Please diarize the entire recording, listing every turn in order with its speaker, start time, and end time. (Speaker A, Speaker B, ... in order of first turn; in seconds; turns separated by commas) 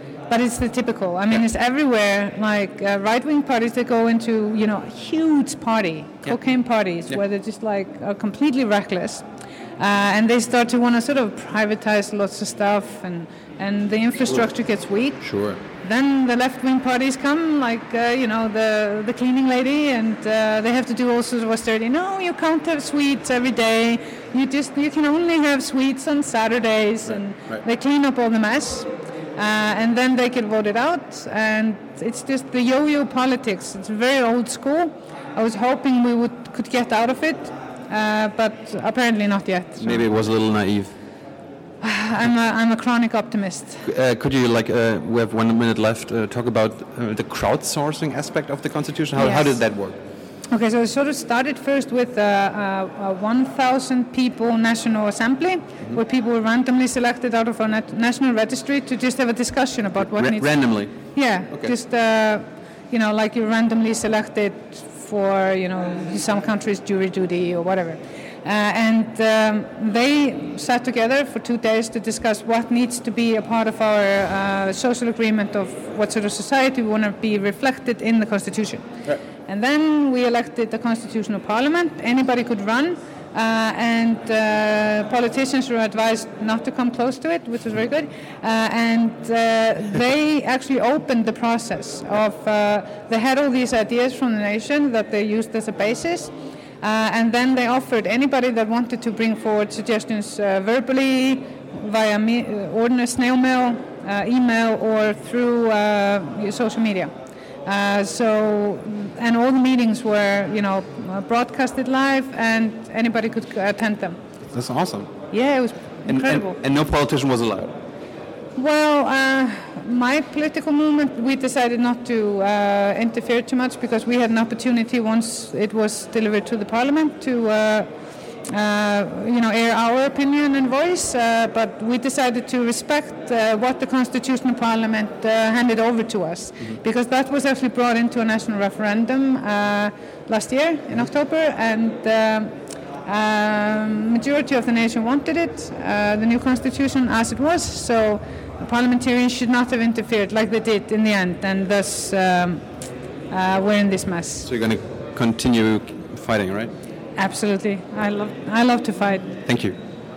Speaker A: 0.3-9.2, Speaker A: 9.8-15.2, Speaker B: 15.2-15.6, Speaker A: 15.8-40.1, Speaker B: 39.8-40.9, Speaker A: 41.8-43.9, Speaker B: 43.9-50.0, Speaker A: 49.2-49.5, Speaker A: 50.5-78.9, Speaker B: 60.0-61.0, Speaker A: 79.4-107.1, Speaker A: 107.7-114.2, Speaker B: 114.5-115.1, Speaker A: 115.3-116.6, Speaker B: 116.1-117.8, Speaker A: 118.6-127.9, Speaker A: 128.4-142.5, Speaker A: 143.1-152.6, Speaker A: 153.3-154.5, Speaker B: 154.4-156.7, Speaker A: 157.2-159.4, Speaker B: 159.4-159.8